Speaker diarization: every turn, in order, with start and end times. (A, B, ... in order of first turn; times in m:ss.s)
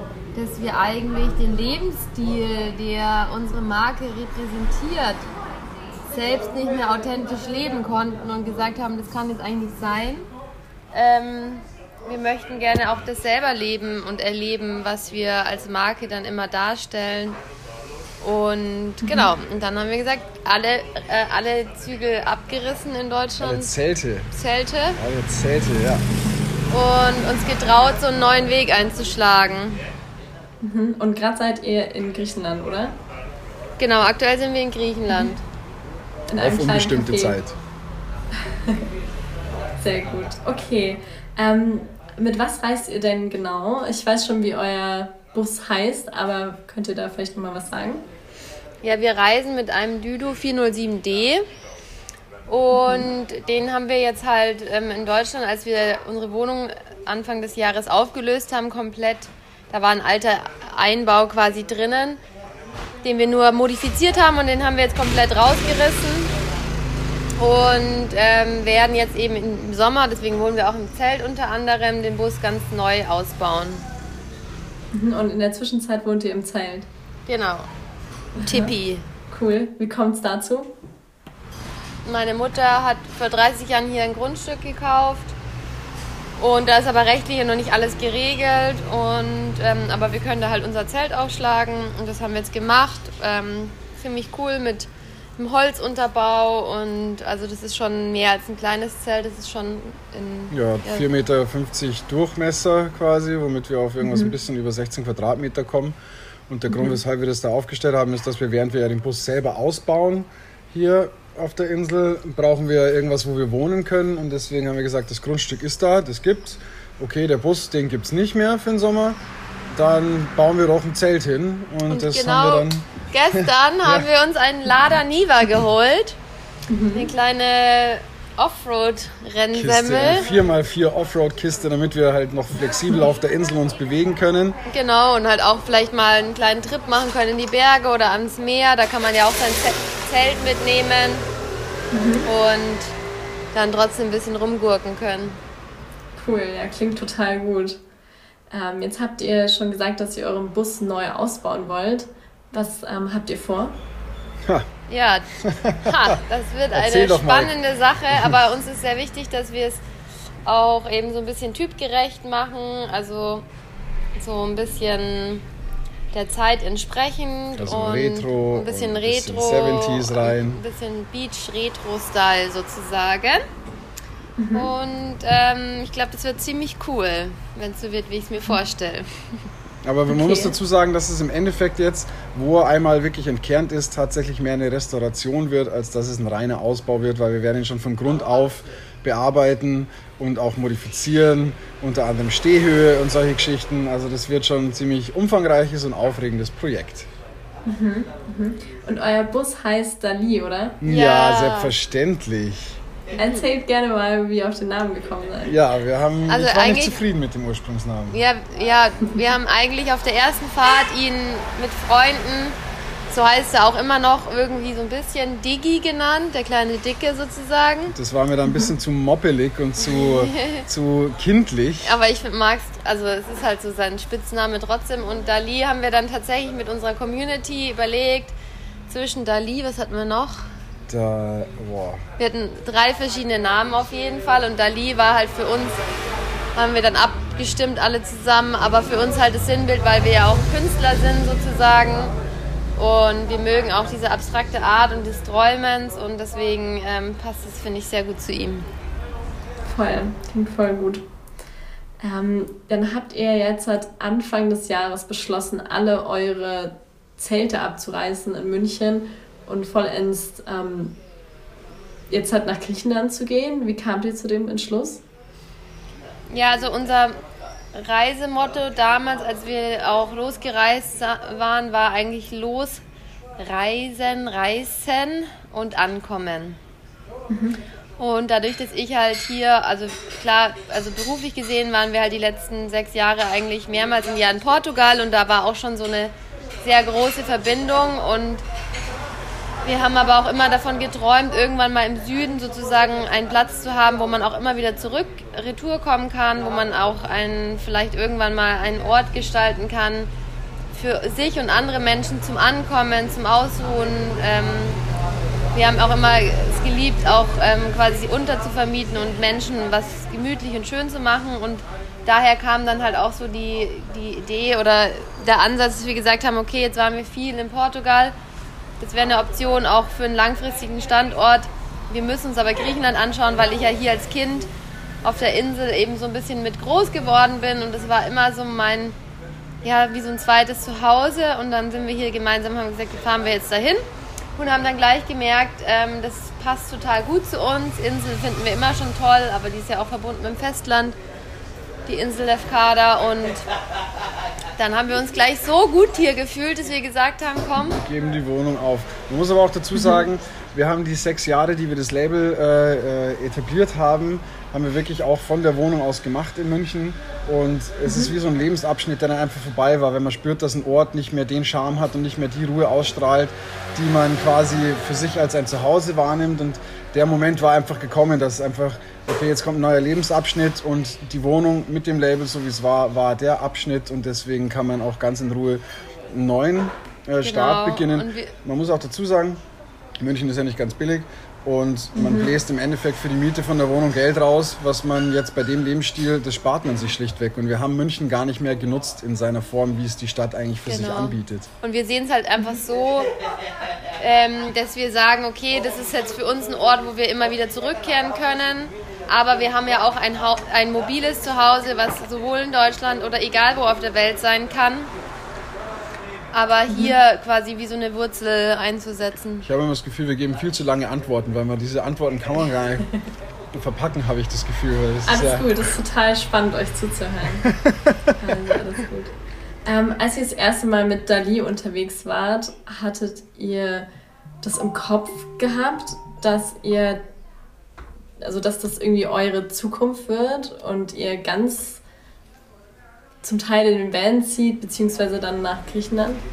0:00.3-0:05.2 A
0:06.0-0:10.3 A
0:10.9-0:17.4 A
0:18.2-0:23.7 A
0:19.0-0:19.3 B
0:23.4-0:24.3 C
0:24.3-0:25.0 A
0:25.0-0:26.0 C
0:26.7-0:29.8 A
0:30.6-0:33.0 B
0:33.8-0:35.4 A
0:35.1-0:35.4 B
0:36.3-0:37.4 B
0:36.4-0:37.6 C
0:39.8-0:48.0 B
0:48.8-0:51.4 A
0:52.5-1:02.2 A
0:52.7-0:53.1 B
1:03.0-1:06.3 A
1:07.4-1:13.8 A
1:14.9-1:16.9 B
1:17.3-1:17.7 A
1:18.4-1:18.7 B
1:18.4-1:19.0 A
1:19.3-1:20.7 B
1:22.0-1:25.3 A
1:26.4-1:41.1 A
1:40.5-1:46.0 C
1:44.0-1:44.3 B
1:46.5-1:59.2 C
1:46.7-1:47.0 B
1:59.7-2:04.1 C
2:01.9-2:06.2 A
2:06.7-2:07.1 B
2:06.9-2:10.3 A
2:09.5-2:14.6 C
2:14.7-2:21.2 A
2:21.9-2:22.3 B
2:22.2-2:22.9 A
2:23.5-2:25.4 A
2:26.2-2:27.8 B
2:28.5-2:33.8 B
2:34.9-2:39.8 A
2:35.4-2:36.2 C
2:36.7-2:37.5 C
2:40.4-2:43.4 A
2:44.2-2:45.4 A
2:46.1-2:53.4 A
2:47.5-2:50.6 C
2:54.4-2:54.7 B
2:54.5-2:59.2 A
2:59.8-3:17.1 C
3:00.1-3:00.5 B
3:17.7-3:20.8 B
3:20.8-3:22.8 C
3:20.8-3:21.7 A
3:23.2-3:25.5 B
3:25.4-3:28.2 C
3:26.3-3:27.0 A
3:28.1-3:32.6 A
3:33.1-3:37.9 A
3:37.9-3:42.0 C
3:39.8-3:40.6 A
3:41.8-3:48.3 A
3:48.9-3:50.5 A
3:50.9-3:52.0 C
3:52.2-3:55.8 A
3:56.6-4:02.1 A
4:02.8-4:08.7 A
4:09.6-4:11.0 B
4:12.0-4:21.0 B
4:22.1-4:25.0 B
4:26.3-4:27.1 A
4:27.7-4:32.8 A
4:33.4-4:36.6 A
4:37.3-4:37.6 B
4:38.0-4:48.4 A
4:49.6-5:00.1 A
5:00.7-5:04.8 A
5:05.5-5:18.1 A
5:18.8-5:24.5 A
5:25.0-5:29.0 A
5:29.6-5:33.8 A
5:34.4-5:41.0 A
5:41.8-5:43.4 A
5:44.6-5:47.8 A
5:47.7-6:19.4 C
5:49.8-5:50.0 B
6:17.2-6:18.3 A
6:20.0-6:31.5 C
6:21.9-6:22.3 B
6:30.6-6:33.1 A
6:34.0-6:44.9 A
6:46.3-6:49.5 A
6:46.7-6:46.9 B
6:49.4-6:52.9 C
6:53.5-6:55.6 C
6:55.0-6:57.5 B
6:57.4-6:58.1 C
6:58.2-6:59.1 B
6:59.6-7:03.9 B
7:04.4-7:07.0 B
7:08.2-7:11.8 B
7:13.2-7:16.2 B